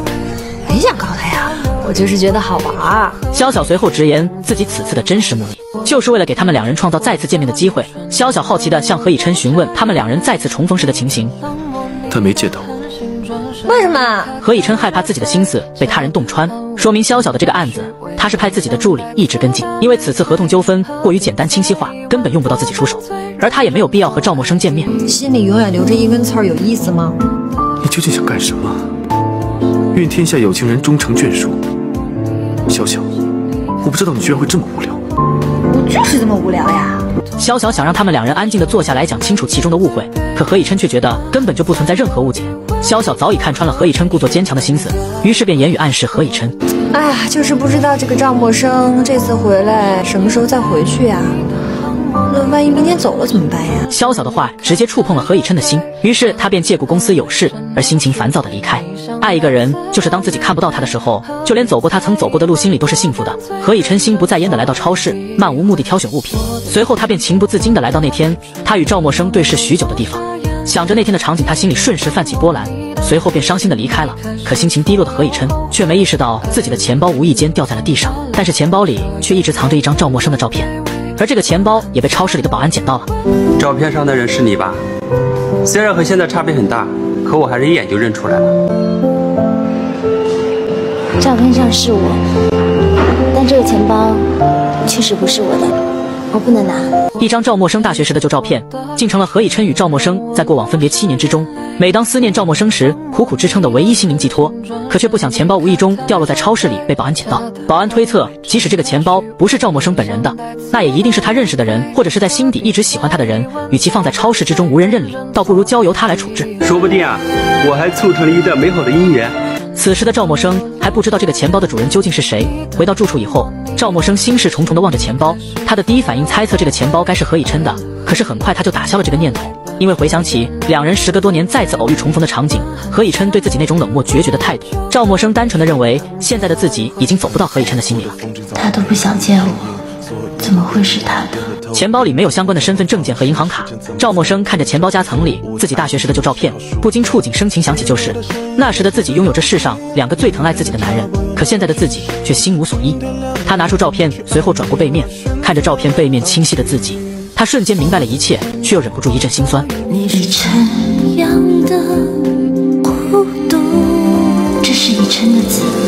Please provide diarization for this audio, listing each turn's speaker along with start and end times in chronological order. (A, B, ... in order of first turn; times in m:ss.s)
0:00.7-0:03.2 A
0:03.3-0:11.4 B
0:12.1-0:12.8 C
0:13.6-0:14.3 A
0:14.4-0:24.9 B
0:25.0-0:27.2 A
0:27.8-0:28.9 C
0:29.9-0:31.6 C
0:32.7-0:33.1 C
0:33.8-0:35.0 C
0:37.4-0:46.6 B
0:46.9-0:51.4 A
0:52.3-0:53.9 A
0:53.9-1:23.1 B
1:23.6-1:24.8 D
1:25.6-1:28.5 D
1:31.2-1:32.2 E
1:33.3-1:34.3 E
1:34.8-1:35.8 E
1:36.3-1:37.0 E
1:37.2-1:56.5 B
1:56.6-1:59.4 D
1:59.8-2:18.2 B
2:18.5-2:19.8 E
2:20.4-2:21.5 E
2:21.7-2:39.7 B
2:39.9-2:45.8 E